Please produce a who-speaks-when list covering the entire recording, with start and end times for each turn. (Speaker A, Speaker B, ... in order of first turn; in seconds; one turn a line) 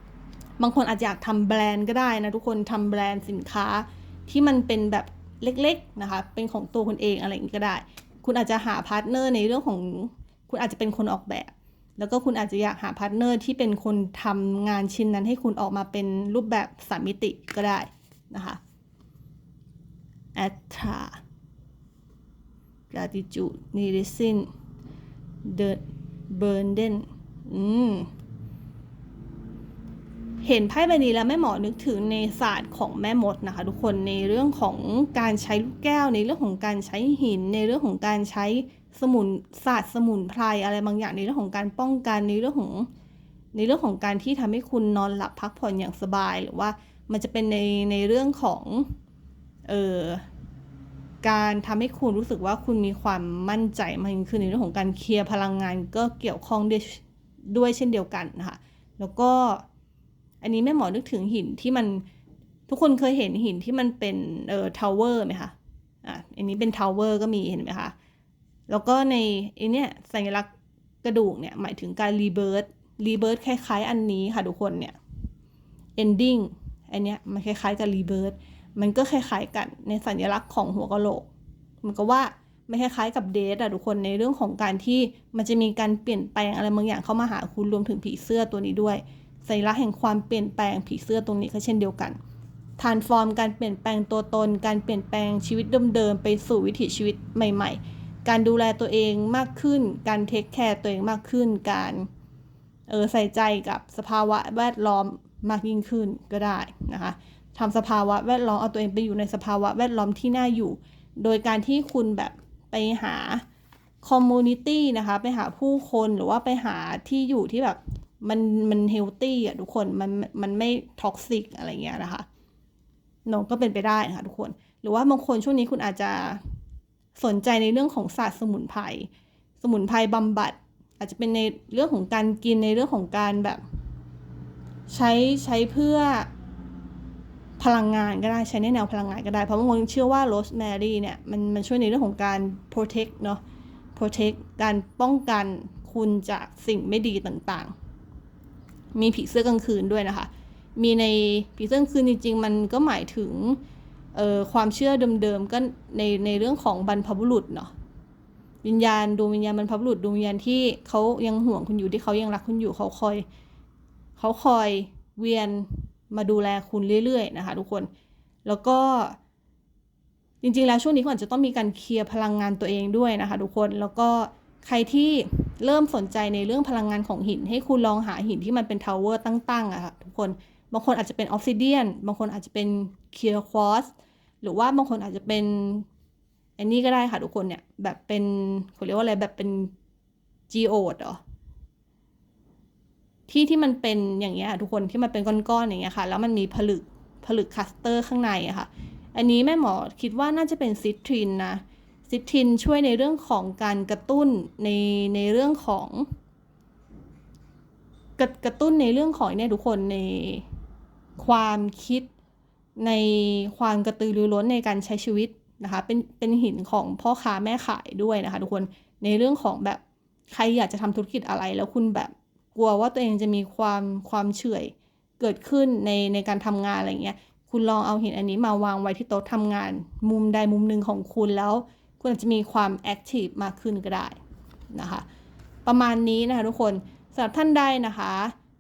Speaker A: 0.6-18.6
Speaker A: 20.4-21.2
Speaker A: 22.9-24.5
Speaker A: 25.4-28.1
Speaker A: 30.4-42.9
Speaker A: 43.5-49.0
Speaker A: 49.7-50.2
Speaker A: 51.2-59.6
Speaker A: 60.4-62.0
Speaker A: 62.7-67.9
Speaker A: 68.7-70.5
Speaker A: 71.0-75.0
Speaker A: 76.0-81.3
Speaker A: 81.8-92.2
Speaker A: 92.8-102.1
Speaker A: 102.9-113.4
Speaker A: 114.0-122.3
Speaker A: 123.3-126.4
Speaker A: 127.2-129.1
Speaker A: 129.6-133.6
Speaker A: 134.9-136.3
Speaker A: 137.6-143.4
Speaker A: 143.9-147.7
Speaker A: 148.9-153.6
Speaker A: 154.1-157.7
Speaker A: 158.6-163.2
Speaker A: 164.2-167.9
Speaker A: 168.4-169.2
Speaker A: 170.4-183.9
Speaker A: 184.4-185.9
Speaker A: 186.6-189.7
Speaker A: 190.5-191.2
Speaker A: 193.3-206.1
Speaker A: 208.2-210.5
Speaker A: 211.2-212.1
Speaker A: 212.8-234.2
Speaker A: 234.7-235.1
Speaker A: 235.7-238.3